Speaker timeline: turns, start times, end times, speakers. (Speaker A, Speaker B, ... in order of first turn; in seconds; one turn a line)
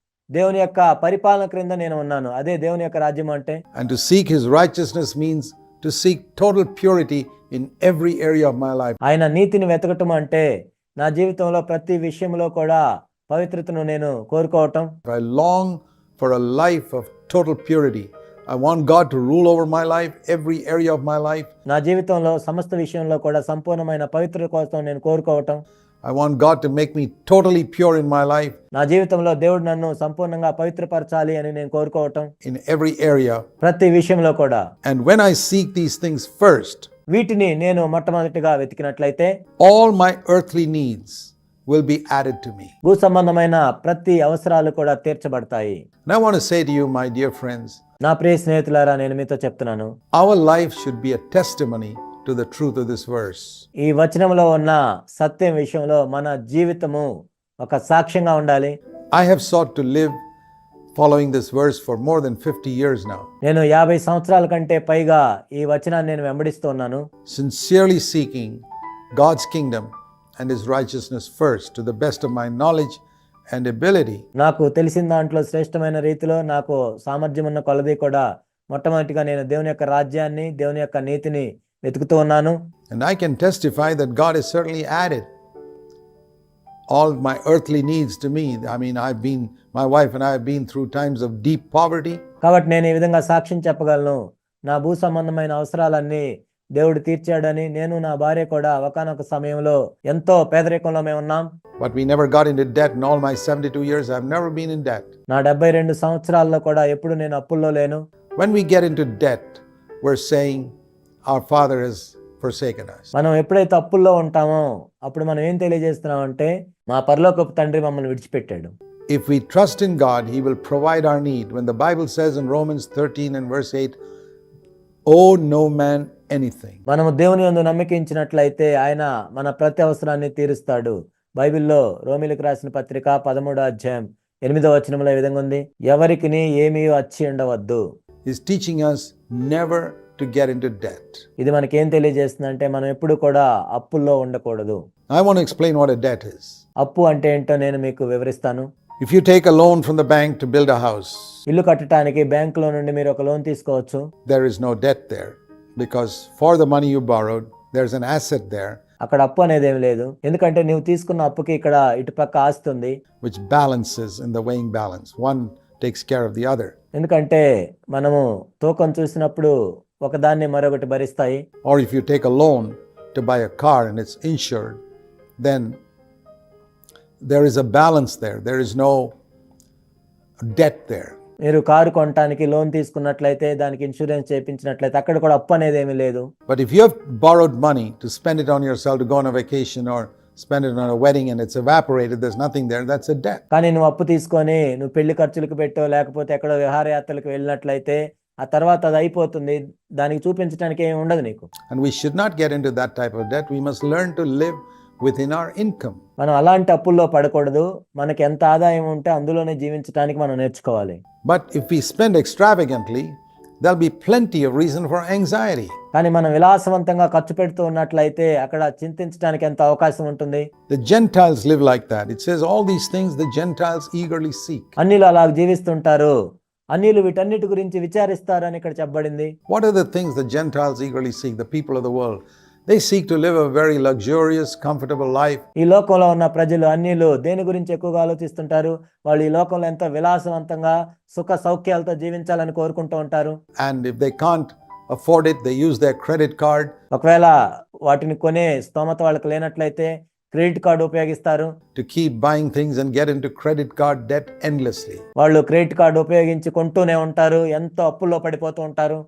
Speaker A: 0.3-3.6
Speaker B: 3.7-9.0
Speaker A: 9.0-10.4
Speaker A: 11.0-14.9
Speaker B: 15.1-21.5
Speaker A: 21.7-25.6
Speaker B: 26.0-28.6
Speaker A: 28.7-32.3
Speaker B: 32.4-33.4
Speaker A: 33.6-34.6
Speaker B: 34.8-36.9
Speaker A: 37.1-39.3
Speaker B: 39.6-42.8
Speaker A: 42.8-45.8
Speaker B: 46.1-47.8
Speaker A: 48.0-49.9
Speaker B: 50.1-53.7
Speaker A: 53.8-57.1
Speaker A: 57.6-58.8
Speaker B: 59.1-60.2
Speaker B: 60.9-63.3
Speaker A: 63.4-67.0
Speaker B: 67.3-74.2
Speaker A: 74.4-82.5
Speaker B: 82.9-85.3
Speaker B: 86.9-92.2
Speaker A: 92.4-101.5
Speaker B: 101.8-105.1
Speaker A: 105.3-108.0
Speaker B: 108.3-110.7
Speaker B: 111.3-113.1
Speaker A: 113.1-118.7
Speaker B: 119.1-124.0
Speaker B: 125.1-126.8
Speaker A: 126.9-137.8
Speaker B: 138.2-141.2
Speaker A: 141.4-144.8
Speaker B: 145.1-146.6
Speaker A: 146.8-148.7
Speaker B: 149.0-151.4
Speaker A: 151.5-154.0
Speaker B: 154.3-158.8
Speaker A: 159.0-162.9
Speaker B: 163.2-166.7
Speaker A: 167.0-167.4
Speaker A: 167.9-171.4
Speaker B: 171.6-174.8
Speaker B: 175.4-175.8
Speaker B: 177.2-179.1
Speaker B: 180.4-181.2
Speaker A: 181.5-186.3
Speaker B: 186.5-193.4
Speaker A: 193.5-201.5
Speaker B: 201.7-206.0
Speaker A: 206.2-211.0
Speaker B: 211.2-215.8
Speaker A: 215.9-220.4
Speaker B: 220.7-224.8
Speaker A: 224.8-226.1
Speaker A: 226.7-229.3
Speaker B: 229.5-235.4
Speaker A: 235.6-243.3
Speaker B: 243.6-246.7
Speaker A: 246.9-247.3
Speaker A: 247.8-251.5
Speaker B: 251.7-255.0
Speaker A: 255.2-259.0